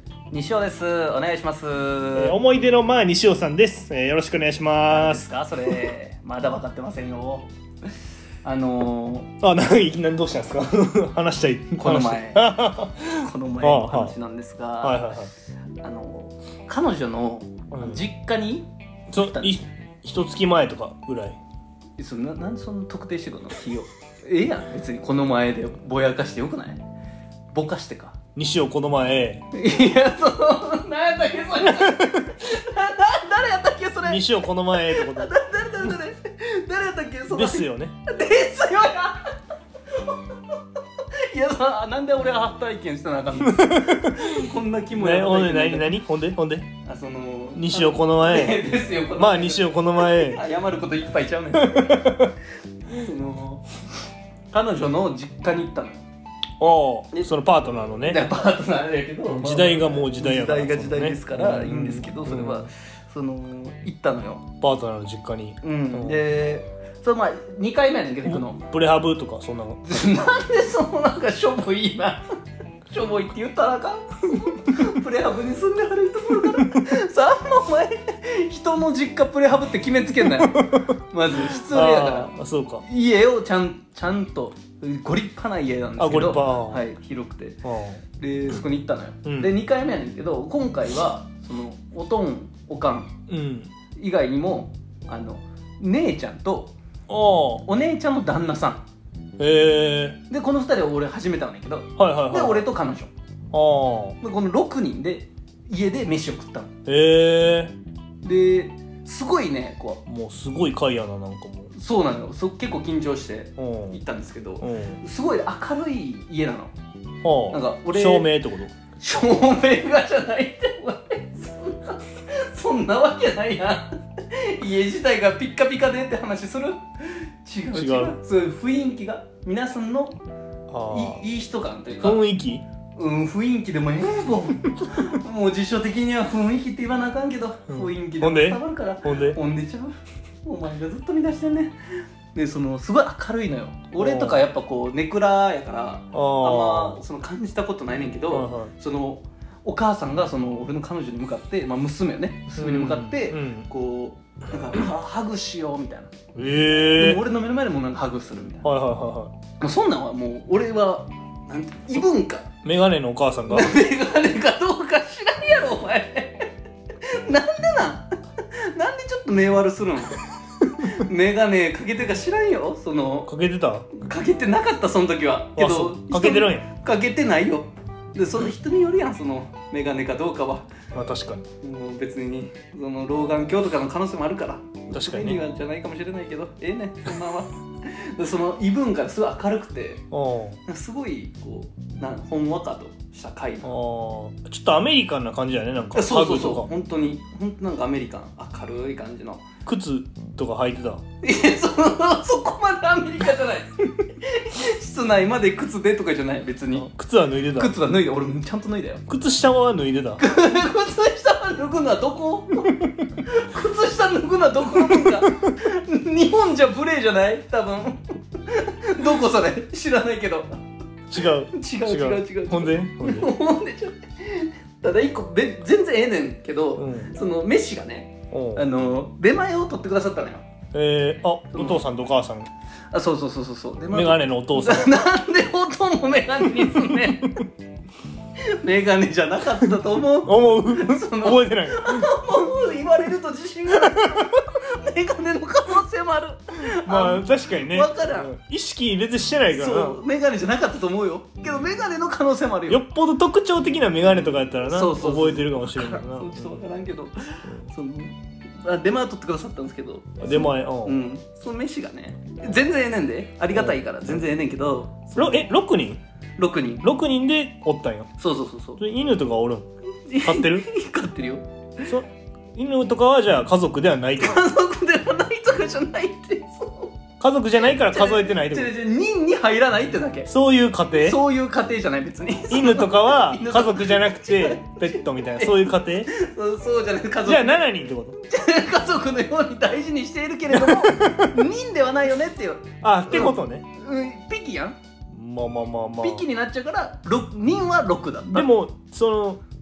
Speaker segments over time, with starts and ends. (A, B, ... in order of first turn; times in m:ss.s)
0:00.3-0:02.4 A
0:02.2-0:05.9 B
0:04.9-0:07.5 A
0:08.4-0:09.3 A
0:09.4-0:14.1 B
0:11.8-0:12.4 A
0:13.2-0:15.1 A
0:14.8-0:15.3 B
0:15.8-0:19.6 A
0:17.7-0:18.0 B
0:19.1-0:21.4 B
0:22.0-0:26.8 A
0:27.5-0:28.2 A
0:28.3-0:29.4 B
0:29.5-0:39.3 A
0:31.7-0:32.1 B
0:34.0-0:35.3 B
0:37.3-0:38.0 B
0:39.9-0:40.6 A
0:41.3-0:45.9 A
0:43.4-0:44.4 B
0:44.9-0:46.7 B
0:46.8-0:52.2 A
0:47.5-0:50.4 B
0:51.6-0:52.3 B
0:52.9-0:53.7 A
0:54.5-0:56.0 A
0:56.6-0:58.3 B
0:58.0-1:04.4 A
0:59.3-1:02.7 B
1:04.6-1:06.2 B
1:05.6-1:08.6 A
1:08.3-1:09.8 B
1:09.8-1:12.2 A
1:12.9-1:22.3 A
1:20.4-1:20.8 B
1:21.4-1:22.8 B
1:22.8-1:27.6 A
1:26.0-1:26.8 B
1:27.6-1:28.0 B
1:28.2-1:33.1 A
1:29.2-1:29.5 B
1:33.3-1:33.7 B
1:34.0-1:36.7 A
1:37.1-1:37.6 B
1:37.6-1:38.8 A
1:39.4-1:40.2 B
1:40.3-1:43.1 A
1:42.0-1:42.7 B
1:43.5-1:44.2 B
1:44.2-1:46.7 A
1:46.8-1:47.7 B
1:48.2-1:50.0 A
1:50.0-1:51.7 B
1:51.7-1:56.7 A
1:53.6-1:54.0 B
1:54.6-1:55.0 B
1:57.2-1:58.7 B
1:57.5-1:58.3 A
1:59.0-2:10.2 A
2:07.7-2:08.2 B
2:10.7-2:11.2 B
2:10.9-2:12.2 A
2:12.0-2:12.6 B
2:13.0-2:19.9 A
2:17.7-2:19.4 B
2:20.4-2:21.8 A
2:22.3-2:36.1 A
2:24.0-2:24.5 B
2:26.1-2:27.0 B
2:28.3-2:28.7 B
2:32.5-2:33.7 B
2:36.3-2:37.2 B
2:36.9-2:38.6 A
2:38.6-2:39.3 B
2:39.6-2:42.5 A
2:42.6-2:43.8 B
2:43.5-2:46.5 A
2:47.0-2:53.3 A
2:53.2-2:53.9 B
2:53.9-3:00.7 A
2:55.6-2:56.7 B
3:00.9-3:01.4 B
3:01.6-3:10.0 A
3:04.9-3:05.4 B
3:10.1-3:10.6 B
3:10.6-3:13.7 A
3:13.6-3:16.7 B
3:15.9-3:19.4 A
3:19.6-3:21.0 B
3:21.2-3:26.9 A
3:26.7-3:27.7 B
3:27.5-3:29.0 A
3:29.1-3:30.2 B
3:30.2-3:40.5 A
3:41.1-3:43.3 B
3:41.5-3:50.4 A
3:46.8-3:47.1 B
3:48.3-3:48.6 B
3:50.7-3:52.5 B
3:51.5-3:51.8 A
3:52.9-3:57.4 A
3:53.9-3:55.0 B
3:58.5-4:08.3 A
4:00.2-4:02.1 B
4:03.7-4:04.4 B
4:06.8-4:10.0 B
4:09.5-4:12.8 A
4:12.7-4:16.6 B
4:14.6-4:25.5 A
4:20.2-4:21.0 B
4:23.5-4:24.2 B
4:25.1-4:26.0 B
4:26.4-4:26.9 A
4:26.8-4:28.1 B
4:28.2-4:28.8 A
4:28.8-4:29.6 B
4:30.0-4:31.4 A
4:30.2-4:30.7 B
4:31.8-4:34.4 B
4:34.2-4:37.0 A
4:37.2-4:38.7 B
4:37.8-4:40.3 A
4:40.3-4:41.2 B
4:40.9-4:47.6 A
4:42.5-4:46.1 B
4:47.2-4:48.2 B
4:48.2-4:54.8 A
4:50.5-4:51.4 B
4:52.8-4:53.6 B
4:55.1-4:56.2 B
4:56.0-4:58.5 A
4:58.3-4:59.4 B